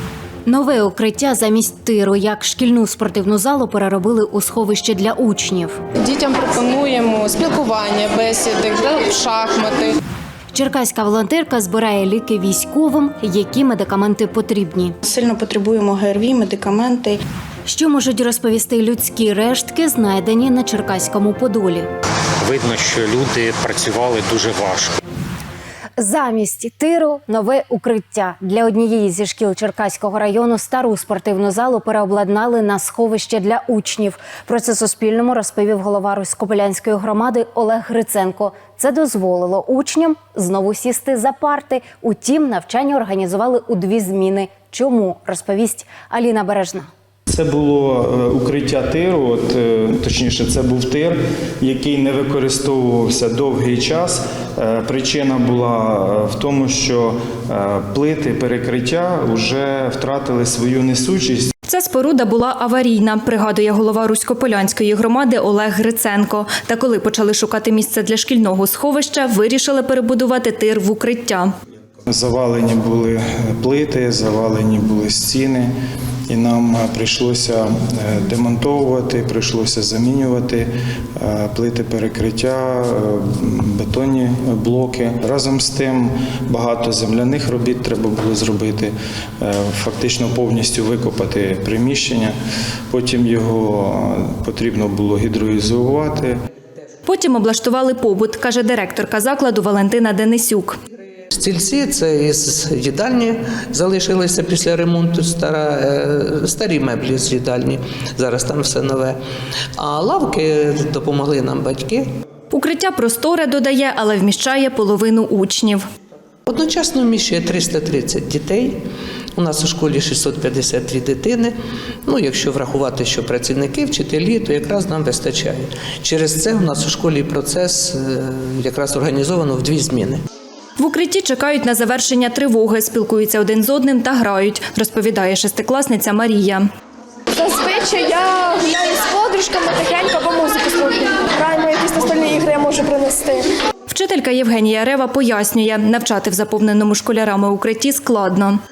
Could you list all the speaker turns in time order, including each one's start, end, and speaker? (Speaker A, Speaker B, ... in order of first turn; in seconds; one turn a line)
Speaker A: 0.5-5.8
Speaker B: 6.0-9.9
Speaker A: 10.5-14.9
Speaker C: 15.1-17.2
Speaker A: 17.6-21.9
Speaker D: 22.4-24.9
Speaker A: 26.0-46.9
Speaker E: 47.3-61.5
Speaker F: 61.7-71.5
Speaker E: 72.1-75.7
Speaker E: 76.3-92.3
Speaker E: 92.9-96.3
Speaker F: 97.1-100.7
Speaker G: 101.3-109.2
Speaker G: 109.8-112.0
Speaker F: 112.5-115.8
Speaker G: 116.5-118.8
Speaker G: 119.3-121.5
Speaker G: 122.0-130.2
Speaker F: 130.8-136.6
Speaker H: 137.4-143.4
Speaker F: 143.9-148.6